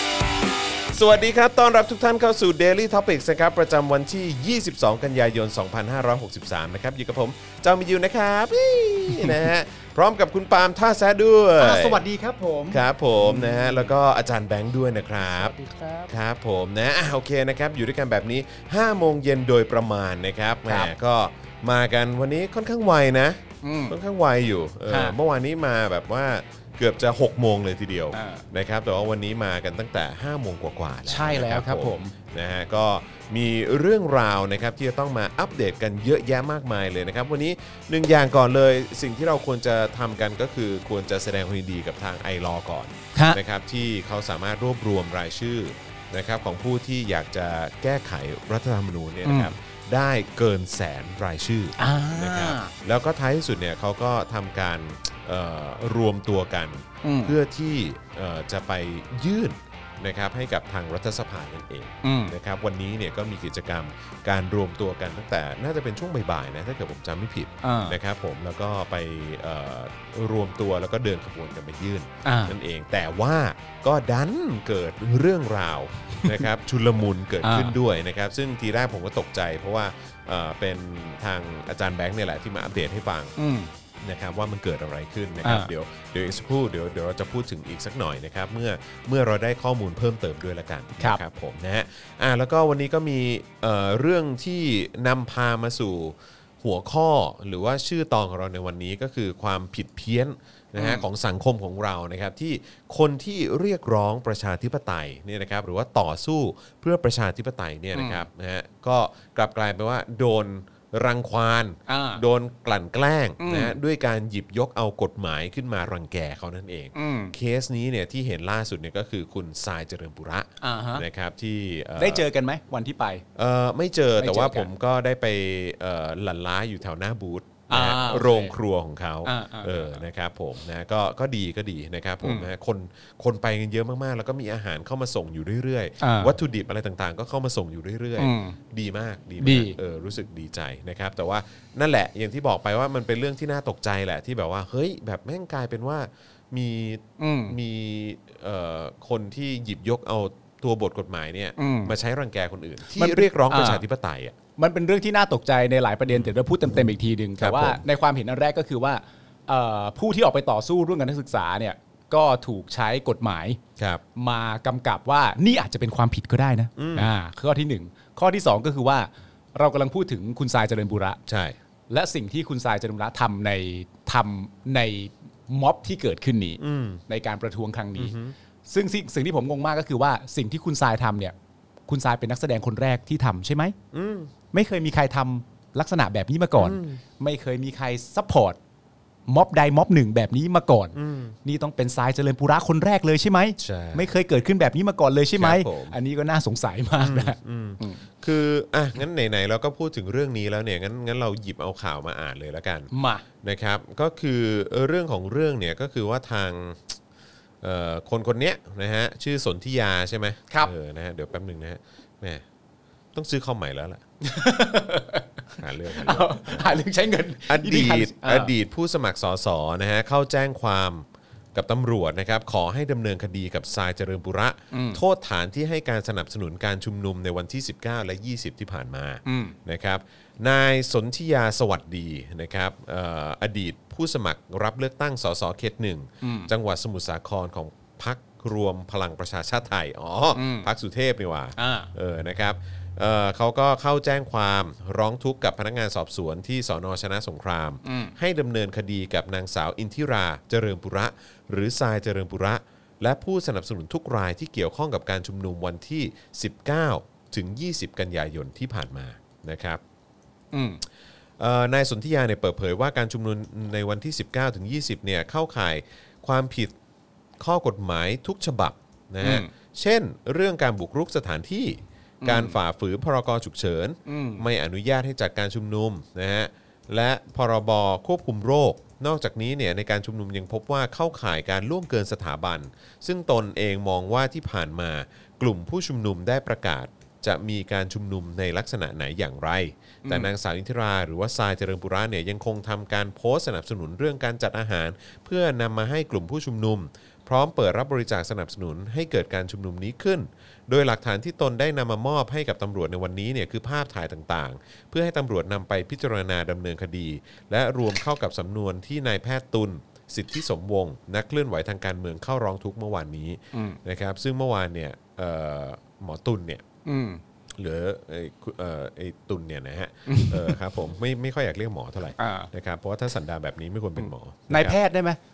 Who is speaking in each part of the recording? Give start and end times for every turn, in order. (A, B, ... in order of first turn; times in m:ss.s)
0:00.9-0:12.0 A
0:11.6-0:13.9 B
0:12.7-0:15.6 A
0:15.4-0:16.1 B
0:16.1-1:23.3 A
0:20.7-0:20.9 B
0:23.6-0:24.0 B
0:24.9-0:25.2 B
0:28.1-0:28.4 B
0:31.1-0:32.1 B
0:49.3-0:49.5 B
0:51.8-0:52.7 B
0:57.0-0:57.4 B
1:02.0-1:02.3 B
1:07.6-1:08.0 B
1:12.2-1:12.6 B
1:16.2-1:16.4 B
1:17.4-1:17.8 B
1:23.4-1:23.7 B
1:24.0-2:02.2 A
1:25.4-1:25.7 B
1:40.8-1:41.0 B
1:47.9-1:48.3 B
1:51.9-1:52.2 B
1:53.4-1:53.8 B
1:56.9-1:57.4 B
2:00.6-2:01.0 B
2:02.0-2:03.2 B
2:03.4-2:34.4 A
2:04.2-2:04.7 B
2:07.7-2:08.6 B
2:09.2-2:10.0 B
2:12.2-2:12.5 B
2:16.0-2:16.4 B
2:18.2-2:18.6 B
2:19.4-2:19.8 B
2:27.2-2:27.6 B
2:31.6-2:31.9 B
2:32.9-2:33.8 B
2:34.6-2:43.6 B
2:37.4-2:37.8 A
2:43.8-2:44.0 A
2:44.2-2:51.2 B
2:46.8-2:47.1 A
2:51.3-2:51.6 A
2:51.9-2:58.2 B
2:56.6-2:57.0 A
2:58.0-2:58.4 A
2:58.7-3:01.4 B
3:01.9-3:03.8 B
3:03.9-3:04.3 A
3:04.5-3:08.6 B
3:06.6-3:07.0 A
3:09.3-3:18.0 B
3:10.9-3:11.3 A
3:13.6-3:14.1 A
3:15.3-3:16.0 A
3:17.0-3:22.9 A
3:22.9-3:23.2 B
3:23.4-3:27.0 A
3:27.6-3:32.4 A
3:33.1-3:34.0 A
3:34.2-3:38.5 B
3:35.6-3:36.8 A
3:37.5-4:19.8 A
3:44.7-3:45.0 B
3:49.3-3:49.6 B
3:56.2-3:56.5 B
4:00.3-4:00.7 B
4:01.6-4:01.9 B
4:07.8-4:08.2 B
4:20.5-4:20.8 B
4:21.4-4:26.8 A
4:27.4-5:16.6 A
4:29.2-4:29.5 B
4:32.2-4:32.6 B
4:34.1-4:34.5 B
4:50.0-4:50.3 B
5:13.5-5:13.8 B
5:16.8-5:17.2 B
5:17.6-5:24.8 A
5:20.1-5:20.6 B
5:22.2-5:22.5 B
5:24.0-5:25.2 B